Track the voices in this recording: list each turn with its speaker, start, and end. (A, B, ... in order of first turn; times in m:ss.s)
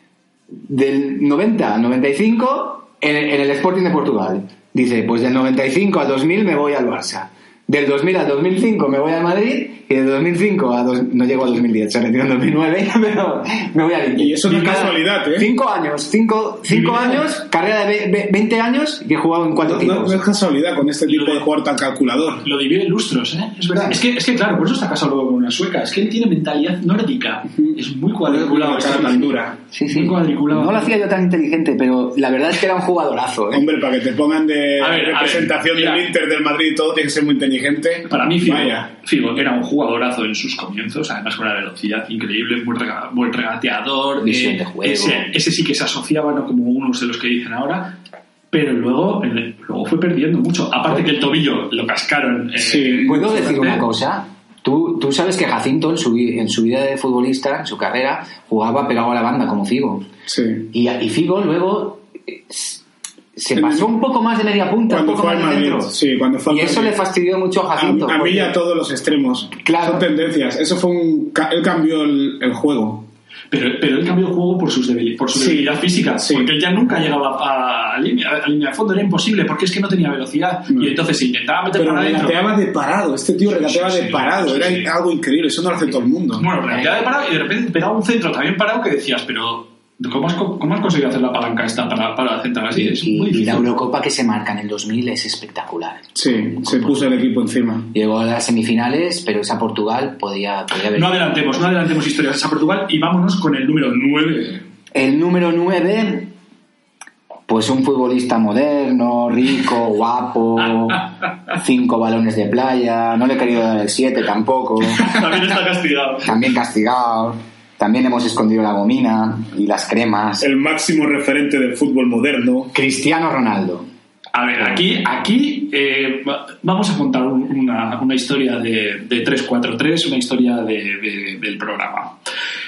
0:00.6-0:20.2 A
0:14.2-0:15.5 B
0:16.7-0:17.3 C
0:19.6-0:22.4 B
0:21.0-0:21.4 C
0:22.4-0:30.9 C
0:27.6-0:29.6 B
0:29.7-0:33.7 A
0:33.5-0:38.9 B
0:34.8-0:36.1 C
0:38.0-0:48.0 C
0:44.2-0:45.3 A
0:48.5-0:53.8 C
0:52.6-0:53.1 B
0:53.0-1:00.1 A
1:00.3-1:00.7 B
1:00.7-1:02.8 A
1:03.4-1:05.9 A
1:03.6-1:03.9 B
1:04.9-1:07.0 B
1:06.5-1:08.6 A
1:07.8-1:13.1 B
1:09.6-1:10.1 A
1:13.5-1:22.5 C
1:15.3-1:16.5 B
1:21.8-1:26.5 B
1:23.4-1:24.9 C
1:26.3-1:33.7 C
1:26.7-1:27.2 A
1:32.7-1:37.2 A
1:36.2-1:37.9 B
1:37.9-1:41.3 A
1:40.9-1:44.6 C
1:44.9-1:46.3 A
1:47.5-1:55.2 A
1:54.9-1:56.4 C
1:56.2-2:00.5 A
2:00.4-2:02.7 B
2:02.7-2:03.8 A
2:04.3-2:12.2 C